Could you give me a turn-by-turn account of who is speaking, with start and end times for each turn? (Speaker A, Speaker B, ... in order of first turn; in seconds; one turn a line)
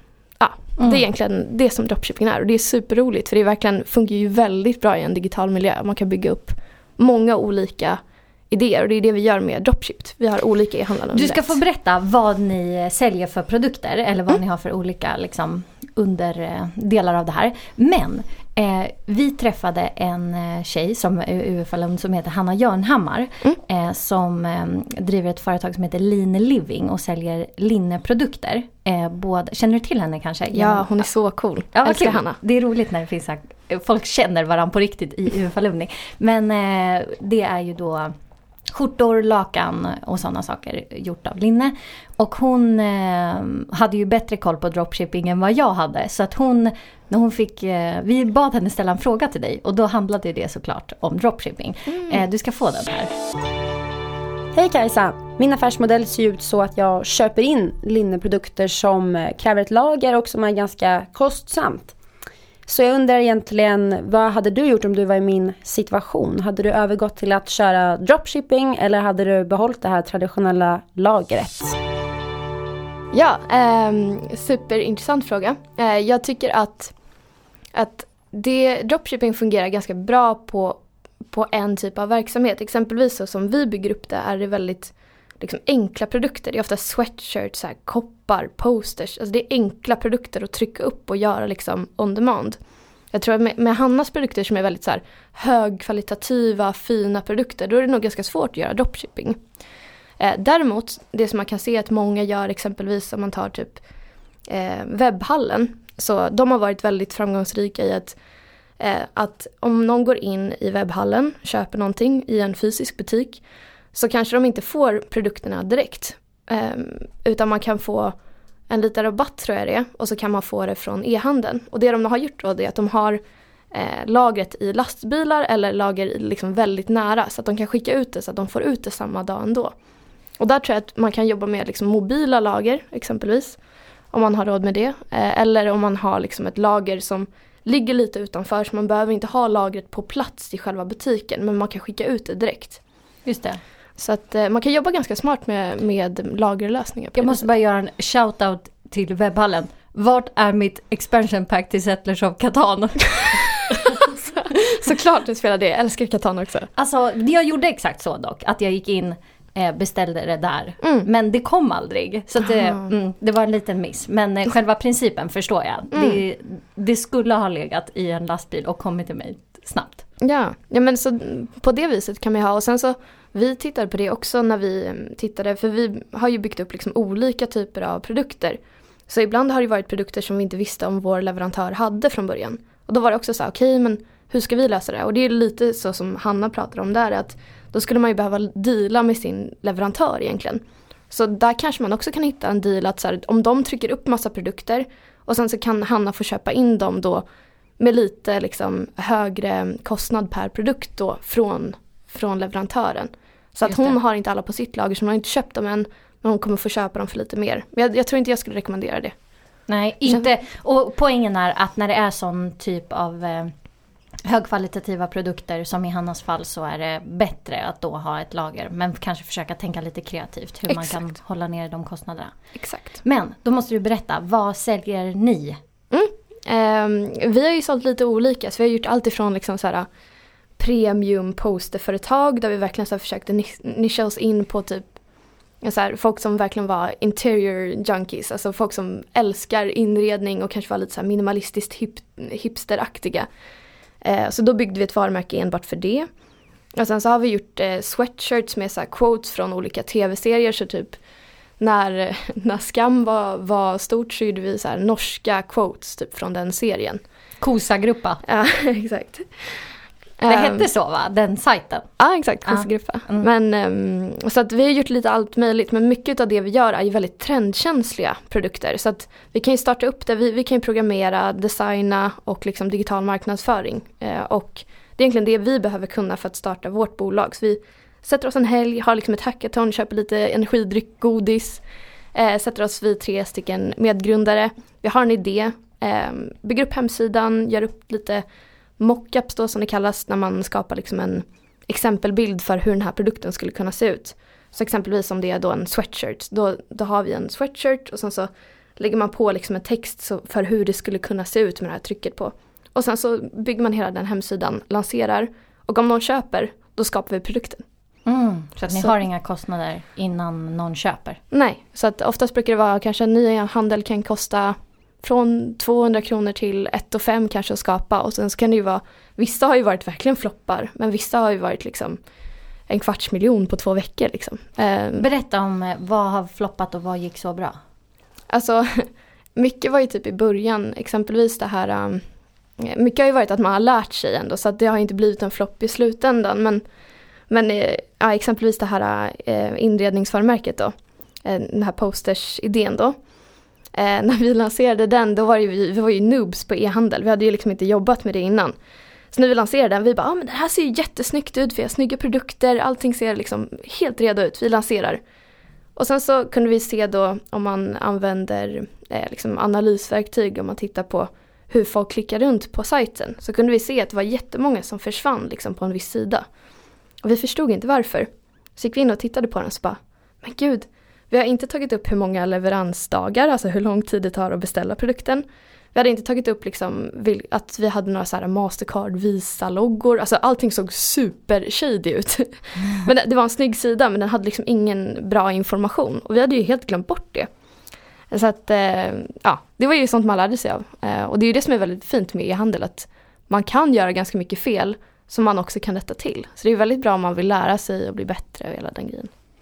Speaker A: 0.4-11.6
Speaker B: 11.1-30.9
Speaker A: 30.5-32.4
Speaker B: 31.7-38.1
Speaker B: 38.7-53.1
Speaker C: 54.5-61.9
Speaker C: 62.7-71.8
Speaker A: 73.1-76.9
Speaker A: 77.7-92.6
Speaker A: 93.1-99.4
Speaker A: 100.2-103.8
Speaker A: 104.5-108.2
Speaker A: 108.8-113.4
Speaker A: 113.9-118.1
Speaker A: 118.7-123.2
Speaker A: 123.7-129.7
Speaker A: 130.4-133.6
Speaker A: 134.1-142.8
Speaker B: 143.2-143.6
Speaker A: 144.0-147.4
Speaker B: 147.1-154.1
Speaker A: 154.3-156.7
Speaker B: 156.8-170.0
Speaker A: 160.8-161.1
Speaker A: 162.5-162.8
Speaker A: 165.9-166.2
Speaker A: 170.2-197.2
Speaker A: 197.8-209.1
Speaker B: 203.7-203.9
Speaker B: 209.7-213.5
Speaker B: 214.3-222.3
Speaker A: 220.7-221.0
Speaker A: 222.6-223.0
Speaker B: 223.0-225.6
Speaker A: 225.9-229.9
Speaker A: 230.6-234.8
Speaker A: 235.6-243.3
Speaker A: 244.0-246.1
Speaker A: 246.8-251.0
Speaker A: 251.6-257.0
Speaker B: 257.4-258.2
Speaker A: 258.2-259.6
Speaker A: 260.2-260.7
Speaker B: 260.3-261.9
Speaker A: 262.0-281.6
Speaker B: 262.4-263.2
Speaker A: 282.1-288.2
Speaker A: 288.8-307.6
Speaker B: 308.1-311.2
Speaker A: 308.6-309.0
Speaker A: 311.3-322.0
Speaker A: 322.7-325.0
Speaker B: 325.0-327.6
Speaker A: 328.3-332.0
Speaker A: 332.6-336.6
Speaker A: 337.3-340.7
Speaker A: 341.2-343.0
Speaker A: 343.7-348.5
Speaker A: 349.1-355.0
Speaker A: 355.8-366.2
Speaker A: 367.0-387.3
Speaker A: 388.1-399.1